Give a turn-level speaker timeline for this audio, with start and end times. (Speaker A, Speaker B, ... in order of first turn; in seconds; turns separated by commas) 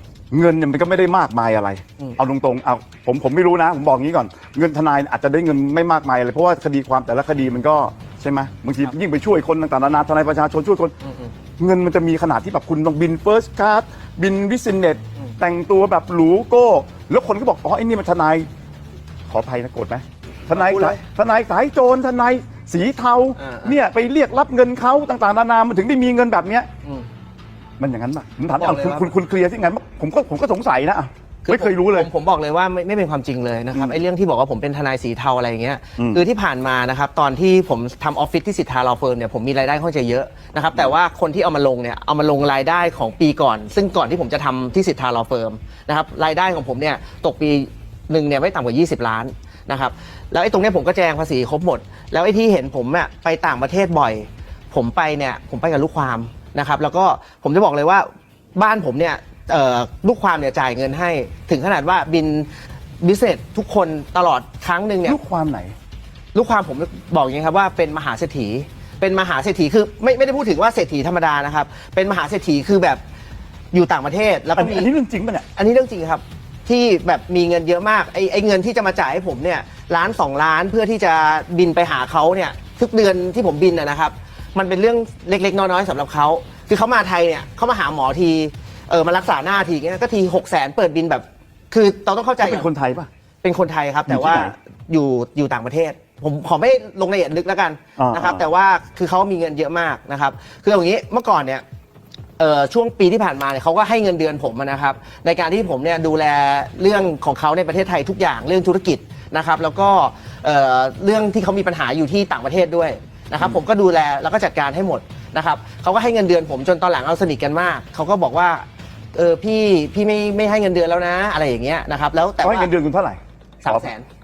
Speaker A: 0.3-10.9, Speaker B: 11.0-11.3, Speaker A: 11.6-18.5, Speaker A: 19.3-26.7, Speaker B: 20.5-21.0, Speaker B: 23.4-23.8, Speaker A: 27.8-32.1, Speaker B: 28.6-29.1, Speaker B: 31.4-62.5, Speaker A: 33.7-34.0, Speaker B: 63.0-65.2, Speaker A: 65.0-65.8, Speaker B: 66.3-73.0, Speaker B: 73.7-74.9, Speaker A: 74.5-75.5, Speaker B: 75.5-92.7, Speaker A: 92.4-93.1, Speaker B: 93.4-101.6, Speaker A: 94.1-94.5, Speaker A: 98.0-98.5, Speaker B: 102.4-122.7, Speaker A: 122.4-123.9, Speaker B: 123.6-124.1